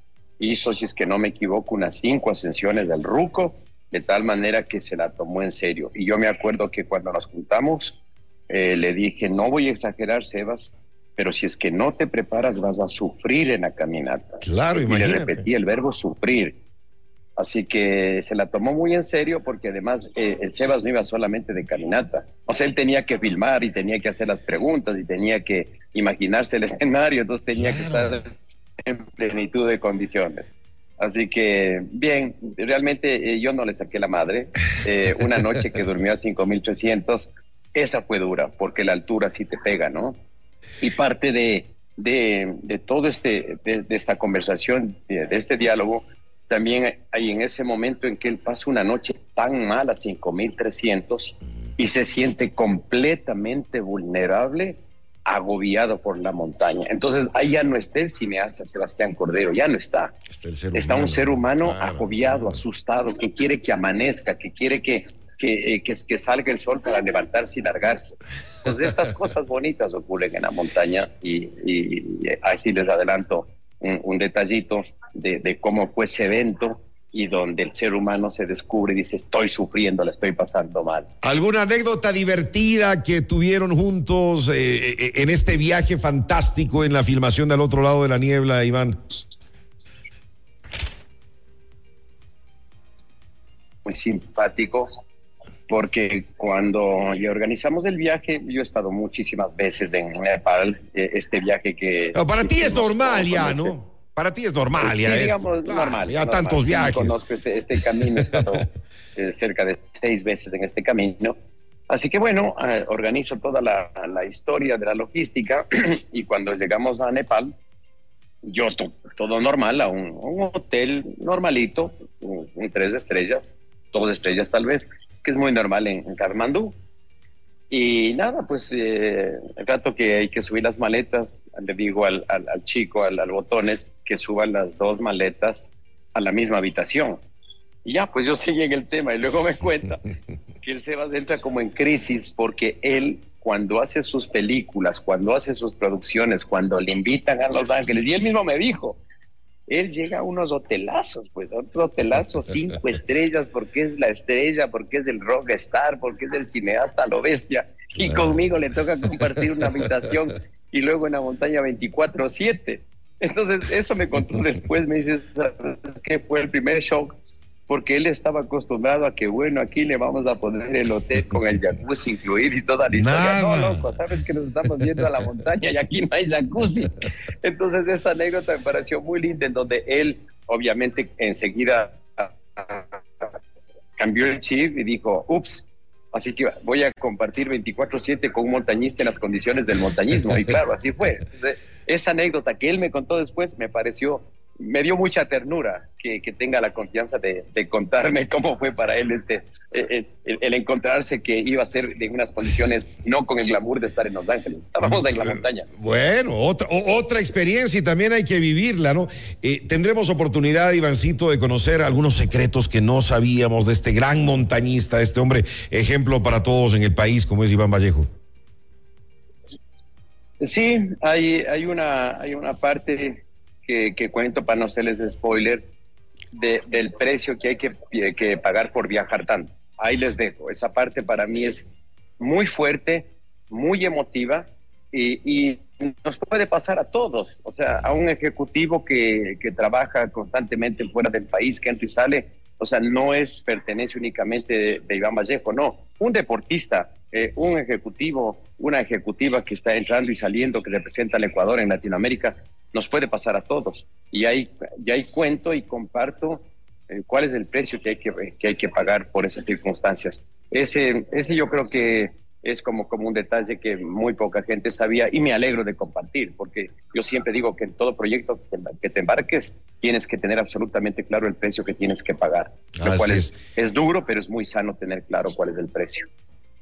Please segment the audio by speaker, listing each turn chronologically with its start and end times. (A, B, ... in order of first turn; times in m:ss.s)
0:00.4-0:16.6 A
0:14.4-0:15.4 B
0:17.4-0:28.3 A
0:27.5-0:28.2 B
0:28.8-0:40.2 A
0:40.8-1:00.2 A
1:00.3-1:02.6 B
1:00.7-1:21.1 A
1:21.2-1:29.0 B
1:33.8-1:34.9 A
1:35.7-1:43.8 A
1:42.1-1:47.2 B
1:44.8-1:51.3 A
1:48.2-1:48.4 B
1:51.9-1:57.5 A
1:58.4-2:06.8 A
2:07.7-2:17.2 A
2:17.8-2:20.1 A
2:20.6-2:29.0 A
2:29.7-2:47.2 A
2:47.7-3:03.4 A
2:52.9-2:53.9 B
3:04.0-3:25.7 A
3:24.8-3:38.1 B
3:40.4-3:45.7 A
3:46.3-4:36.1 A
4:32.8-4:33.4 B